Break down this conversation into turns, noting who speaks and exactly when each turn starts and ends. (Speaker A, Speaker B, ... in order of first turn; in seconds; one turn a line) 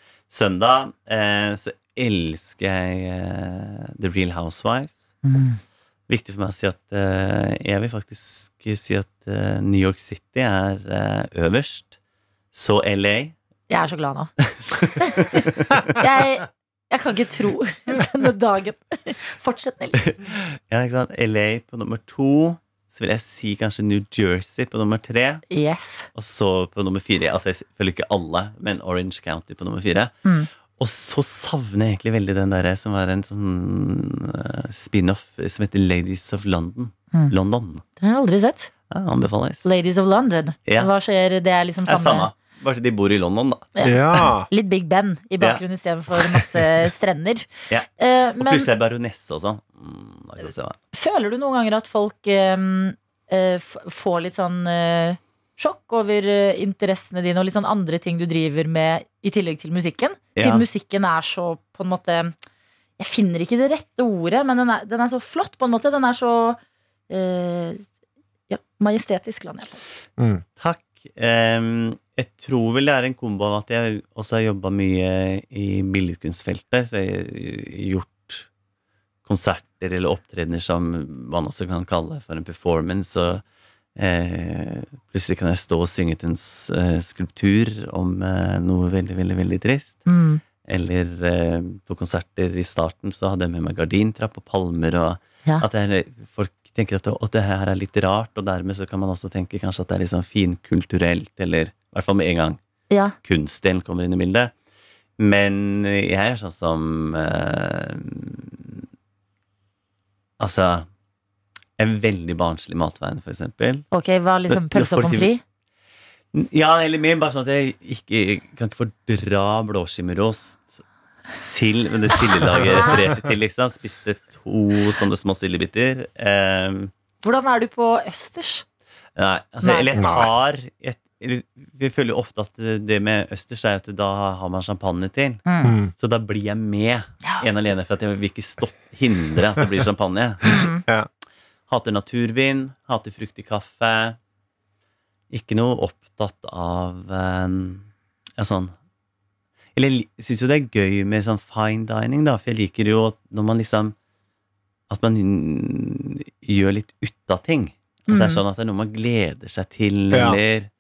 Speaker A: 0.3-5.1
Speaker B: 5.2-5.6
Speaker A: 6.1-11.9
Speaker A: 12.5-13.3
Speaker B: 13.7-14.3
Speaker A: 14.5-16.0
Speaker B: 15.0-20.0
Speaker A: 20.0-25.4
Speaker B: 25.5-26.1
Speaker A: 26.1-30.1
Speaker A: 30.8-37.8
Speaker B: 38.0-38.7
Speaker A: 38.9-39.8
Speaker B: 39.6-42.3
Speaker A: 40.6-40.9
Speaker A: 41.9-43.7
Speaker B: 43.8-48.7
Speaker C: 43.8-44.5
Speaker A: 47.7-50.8
Speaker B: 50.9-62.3
Speaker A: 60.4-60.6
Speaker B: 63.0-66.6
Speaker B: 67.1-67.8
Speaker B: 68.5-69.8
Speaker C: 70.2-70.4
Speaker A: 70.6-78.5
Speaker A: 79.2-83.4
Speaker A: 84.0-90.0
Speaker B: 90.0-90.4
Speaker A: 90.6-102.6
Speaker B: 102.9-103.1
Speaker A: 103.2-104.5
Speaker A: 105.2-108.8
Speaker A: 110.4-110.9
Speaker A: 111.8-113.8
Speaker B: 113.9-115.4
Speaker A: 114.5-115.3
Speaker A: 116.3-126.9
Speaker C: 122.6-123.3
Speaker B: 127.2-128.6
Speaker A: 129.2-140.5
Speaker B: 129.6-129.9
Speaker C: 129.9-130.3
Speaker B: 135.4-135.8
Speaker C: 135.6-135.9
Speaker B: 140.4-140.8
Speaker C: 140.6-141.1
Speaker A: 141.7-144.2
Speaker A: 145.3-147.9
Speaker A: 148.4-148.7
Speaker A: 149.7-153.9
Speaker A: 154.9-160.7
Speaker B: 158.1-158.4
Speaker C: 160.1-160.4